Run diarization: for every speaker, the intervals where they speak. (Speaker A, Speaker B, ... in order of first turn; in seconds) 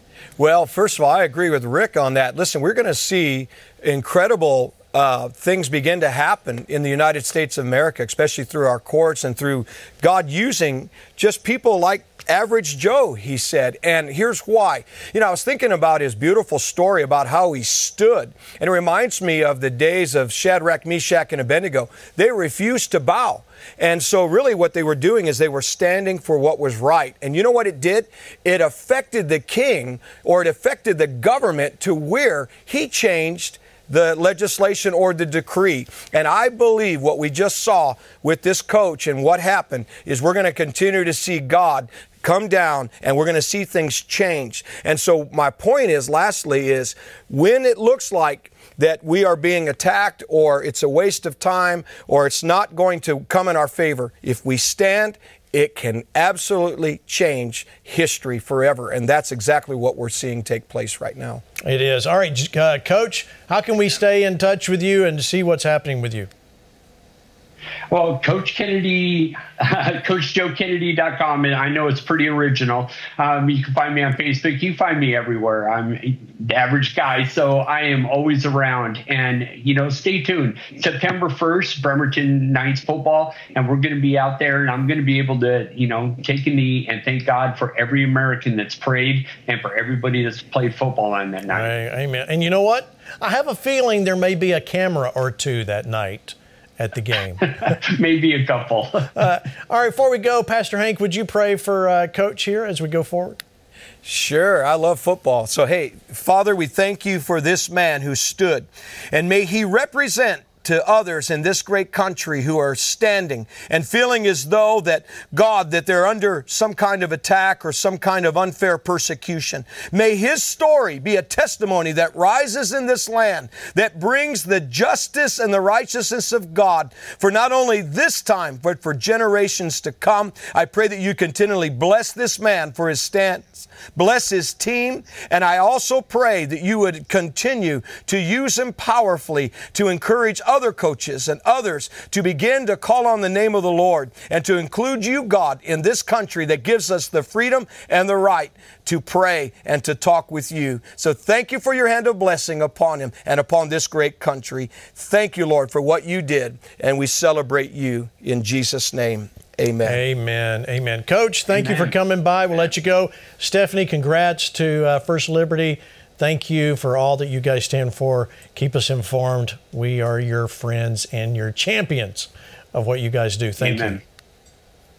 Speaker A: 0.4-61.4, 104.0-160.0
Speaker B: 61.6-66.3, 91.5-97.7, 99.2-103.4, 159.8-174.0
Speaker C: 67.9-91.7, 97.7-99.1, 173.6-174.0